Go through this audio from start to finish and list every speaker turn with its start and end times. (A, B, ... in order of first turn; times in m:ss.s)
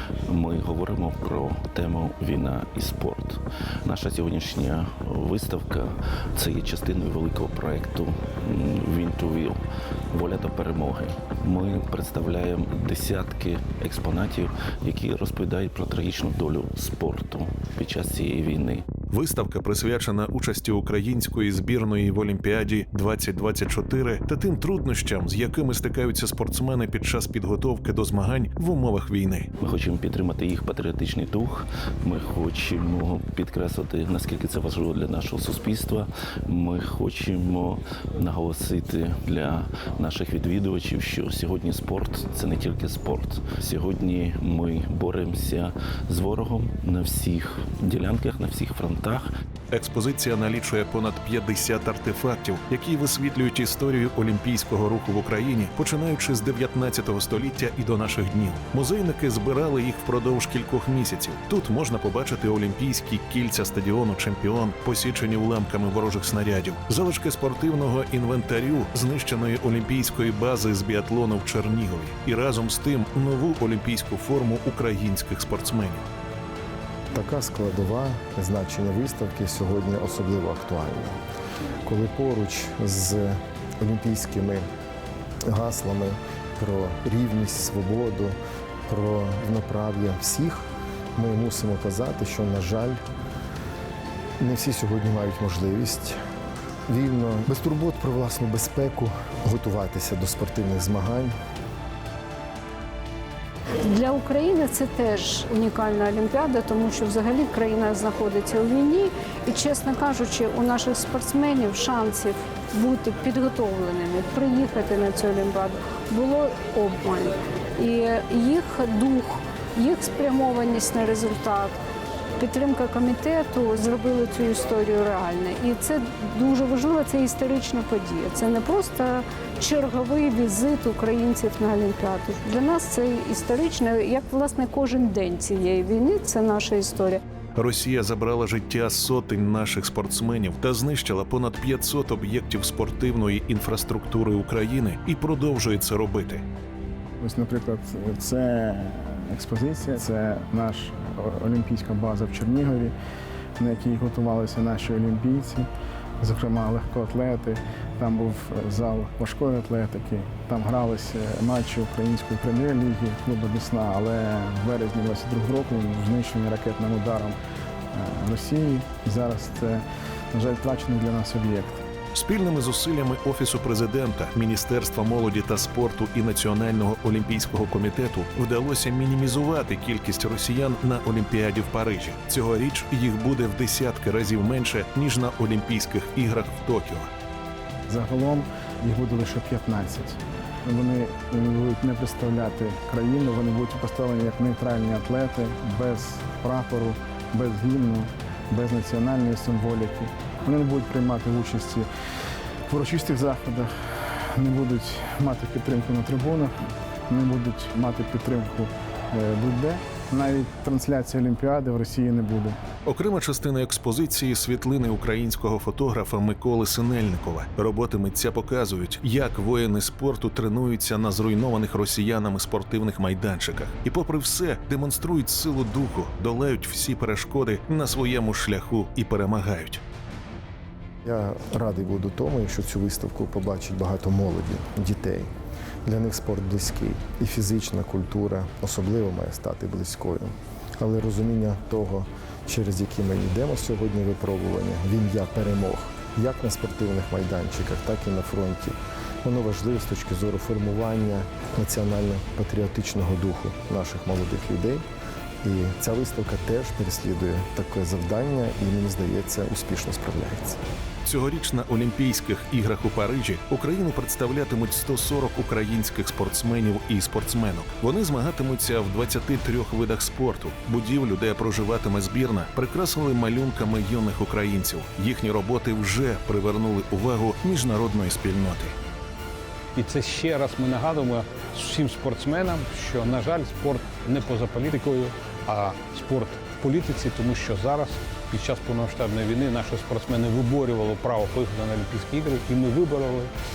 0:00.3-0:09.6 A
0:10.1-0:18.9 A
0:19.1-0:29.5 B
0:29.6-0:49.3 A
0:49.7-1:16.0 B
1:17.1-1:21.2 C
1:21.8-1:24.6 C
1:25.5-1:28.4 C
1:28.9-1:33.0 C
1:34.4-1:36.2 C
1:36.9-1:41.4 C
1:43.8-2:01.8 D
2:02.4-2:17.2 D
2:17.6-2:26.4 B
2:27.2-2:32.9 E
2:33.6-2:35.7 E
2:36.2-2:47.4 E
2:47.9-2:51.8 E
2:52.1-3:07.1 B
3:07.9-3:21.9 E
3:22.7-3:23.7 E
3:24.4-3:26.5 E
3:27.1-3:32.6 E
3:32.8-3:49.8 B
3:51.0-3:55.3 C
3:55.8-4:14.8 C
4:15.4-4:20.6 C
4:21.1-4:38.7 B
4:39.8-4:53.3 F